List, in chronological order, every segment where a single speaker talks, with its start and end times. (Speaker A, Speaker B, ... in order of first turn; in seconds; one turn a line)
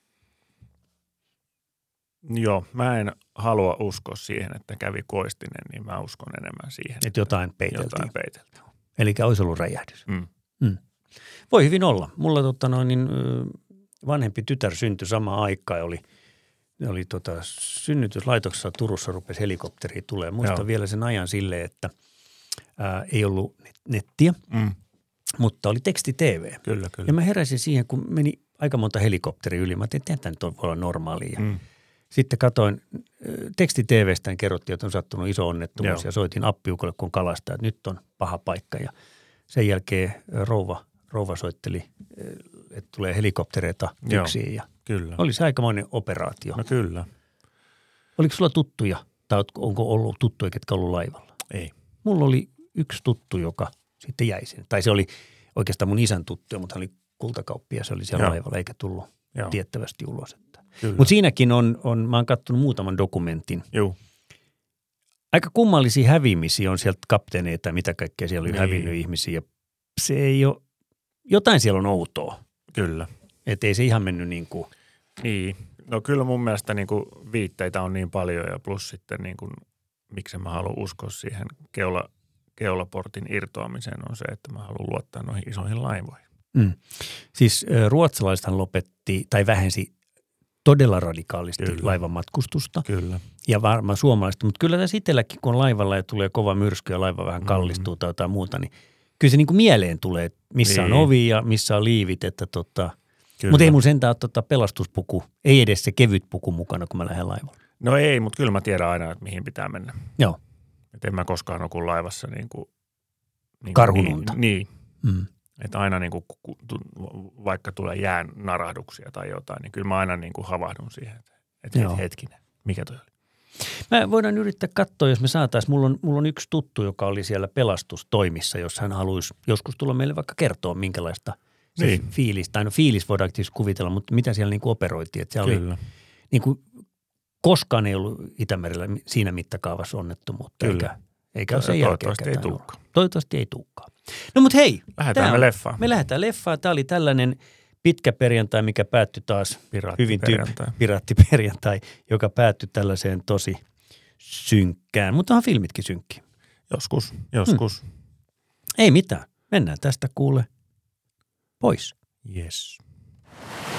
Speaker A: 2.2-8.4
Speaker B: 7.0-8.1
Speaker B: 9.0-10.1
Speaker B: 11.5-16.0
Speaker B: 16.8-21.9
Speaker B: 22.8-24.4
Speaker B: 25.4-31.5
Speaker A: 26.6-27.1
Speaker B: 32.1-38.9
Speaker A: 35.8-36.0
Speaker B: 39.5-46.6
Speaker A: 44.0-45.2
Speaker A: 46.5-47.1
Speaker B: 48.2-51.3
Speaker B: 52.0-63.7
Speaker A: 60.8-61.1
Speaker B: 65.3-69.5
Speaker A: 68.5-68.9
Speaker B: 70.0-70.6
Speaker B: 71.3-72.4
Speaker A: 72.7-73.1
Speaker B: 73.5-74.7
Speaker A: 75.2-86.2
Speaker B: 86.5-89.9
Speaker B: 90.6-92.9
Speaker A: 91.6-91.9
Speaker A: 92.9-93.2
Speaker B: 93.4-102.9
Speaker A: 97.5-97.8
Speaker A: 100.7-101.1
Speaker A: 103.4-103.8
Speaker B: 103.5-107.6
Speaker A: 107.8-110.0
Speaker A: 110.9-112.7
Speaker A: 113.6-114.7
Speaker B: 113.7-114.4
Speaker A: 115.6-123.1
Speaker B: 121.7-122.0
Speaker B: 123.9-135.6
Speaker A: 131.8-132.1
Speaker A: 135.4-135.8
Speaker B: 136.3-136.6
Speaker B: 137.4-153.6
Speaker A: 140.6-140.9
Speaker A: 141.5-142.8
Speaker A: 145.0-145.9
Speaker A: 149.7-150.8
Speaker B: 154.2-156.2
Speaker A: 156.7-157.8
Speaker B: 158.8-160.5
Speaker B: 161.6-161.9
Speaker A: 162.2-162.8